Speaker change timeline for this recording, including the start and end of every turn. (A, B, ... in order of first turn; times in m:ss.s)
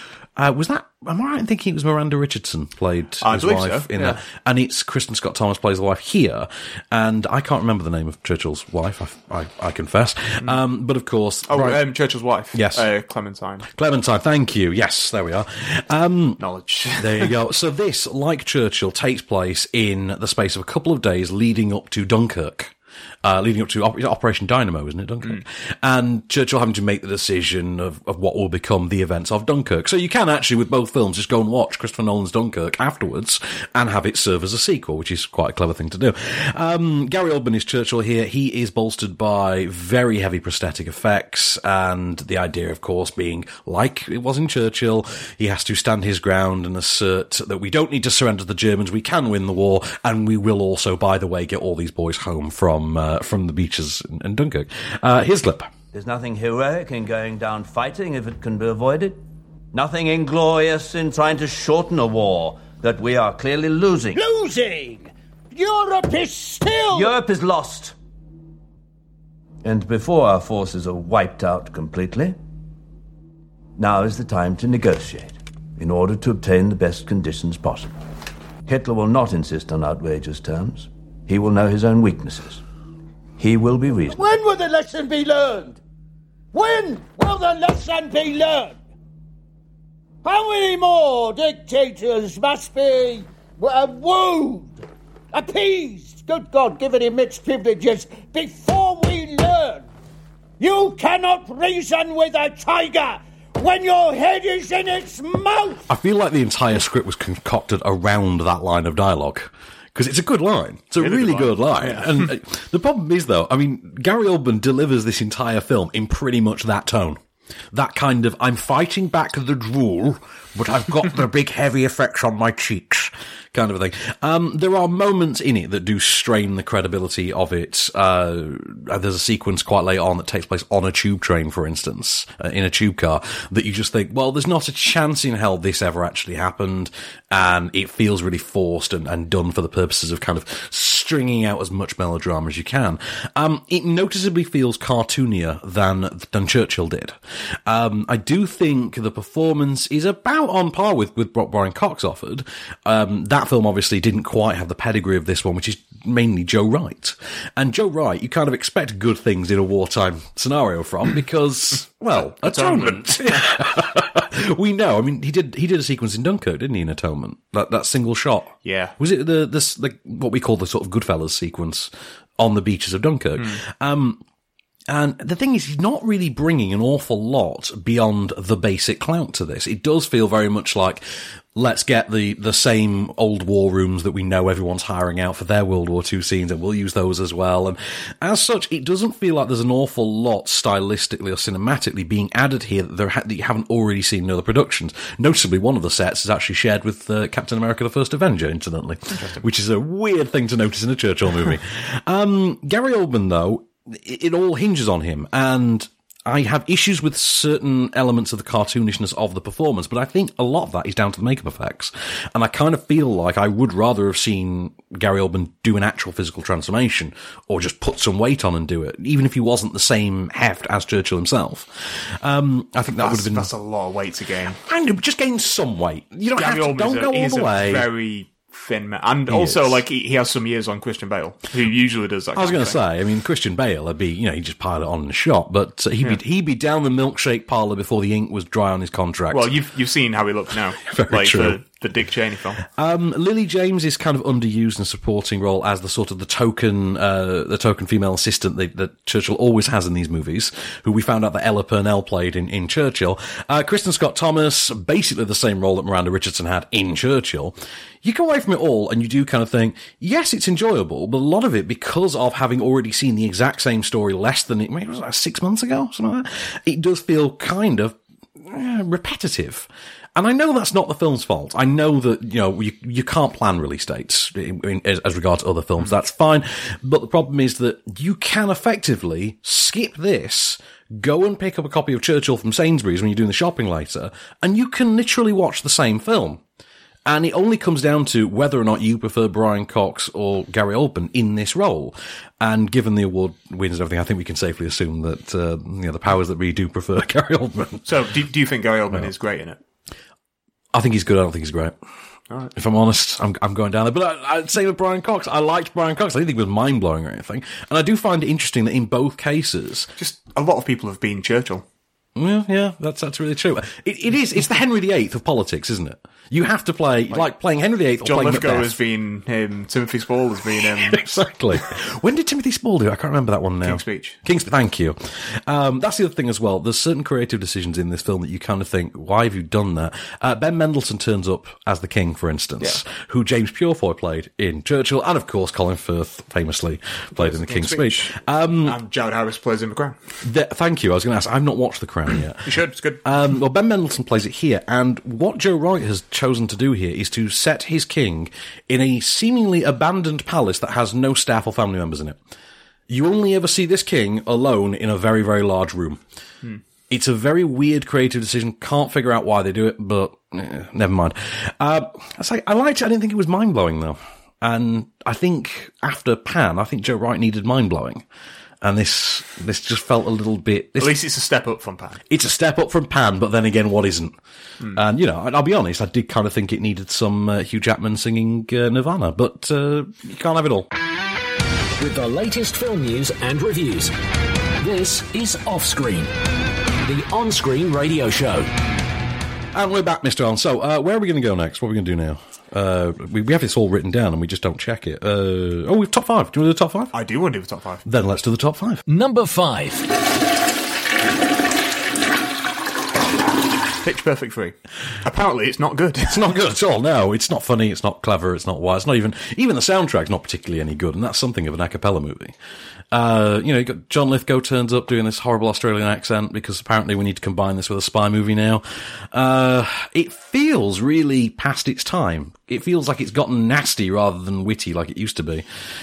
0:00.4-0:11.8 A
0:03.2-0:04.2 B
0:11.5-0:13.7 B
0:12.5-0:12.9 A
0:13.7-0:16.4 A
0:16.4-0:17.3 B
0:17.0-0:55.7 A
0:55.9-0:59.2 C
0:59.7-1:04.2 C
1:04.1-1:07.1 D
1:06.9-1:07.9 C
1:09.6-1:12.4 C
1:13.8-1:18.0 C
1:18.6-1:22.6 C
1:23.4-1:24.2 C
1:24.1-1:25.8 D
1:26.5-1:28.8 D
1:30.2-1:39.9 D
1:40.6-1:45.8 D
1:45.9-1:57.2 A
1:51.0-1:52.3 B
1:57.7-2:54.2 A
2:42.4-2:43.5 B
2:48.6-2:48.9 B
2:54.9-3:01.0 A
3:01.5-3:43.5 A
3:19.1-3:19.4 B
3:43.0-3:44.6 B
3:44.6-3:47.9 A
3:46.3-3:52.8 B
3:49.3-3:49.8 A
3:52.4-3:59.5 A
3:59.3-4:02.6 B
4:00.8-4:01.6 A
4:02.7-4:46.4 A
4:47.0-4:57.9 A
4:57.8-4:59.6 B
5:00.7-5:01.7 A
5:02.6-5:09.9 A
5:10.0-5:11.6 B
5:12.2-5:18.7 A
5:18.0-5:21.1 B
5:20.9-5:38.8 A
5:23.6-5:24.2 B
5:37.1-5:40.0 B
5:40.2-5:42.5 A
5:42.4-5:43.0 B
5:43.0-5:52.2 A
5:52.9-5:56.0 A
5:56.9-6:08.0 A
6:08.6-6:11.0 A
6:10.8-6:12.0 B
6:12.1-6:14.1 A
6:14.7-6:20.7 A
6:21.8-6:23.9 E
6:24.6-6:26.1 E
6:26.8-6:28.5 E
6:29.5-6:36.9 A
6:36.9-6:37.8 B
6:37.8-6:38.8 A
6:38.9-6:39.9 E
6:43.8-6:46.2 B
6:46.1-6:52.3 A
6:52.9-7:05.4 A